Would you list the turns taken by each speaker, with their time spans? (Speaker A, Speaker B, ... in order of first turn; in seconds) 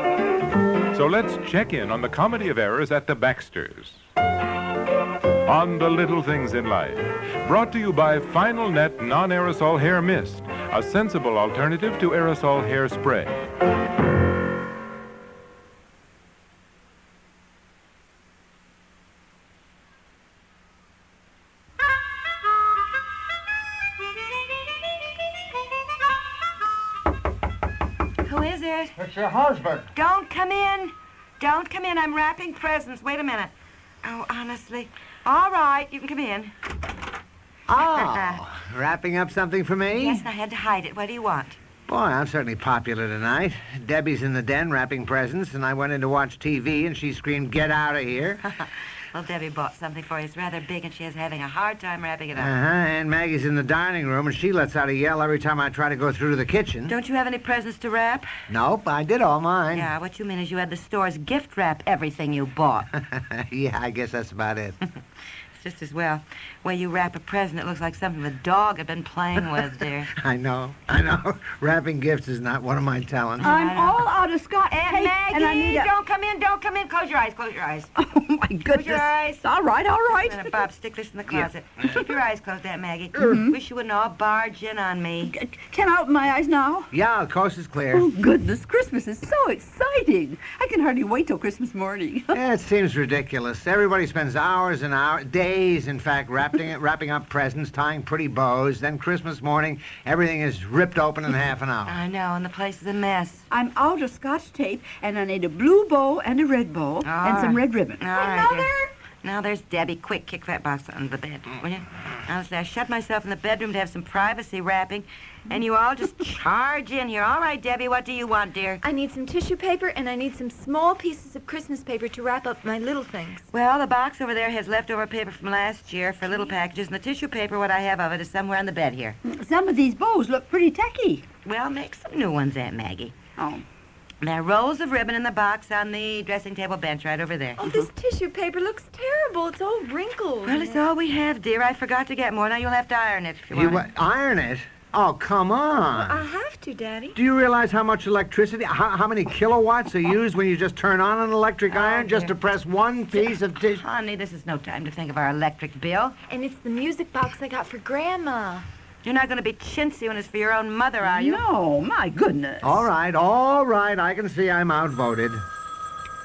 Speaker A: 0.9-4.0, 5.5-13.3
Speaker B: 28.2-29.0, 29.9-33.5, 34.0-36.5, 37.9-38.4, 39.9-41.6, 48.4-52.5, 56.9-58.3, 59.7-62.9, 65.6-70.1, 73.4-74.1, 74.7-77.9, 78.7-79.5, 80.1-85.3, 101.9-103.5, 107.0-118.8, 123.5-129.2, 131.4-133.1, 134.2-137.7, 140.4-143.9, 151.7-152.3, 153.1-156.2, 159.0-161.4
Speaker C: 29.0-29.9, 37.7-40.3, 41.9-48.4, 52.3-57.0, 58.5-59.9, 63.0-64.8, 70.1-73.6, 86.9-88.1, 92.3-102.0, 143.5-146.2, 147.2-153.8, 162.6-165.4
Speaker D: 73.4-75.9, 78.0-80.6, 83.2-83.6, 85.2-86.9, 87.9-92.4, 103.5-108.9, 129.3-131.2, 133.4-133.6, 161.0-162.9
Speaker E: 118.8-123.5, 137.6-140.8, 146.0-147.2, 156.3-158.7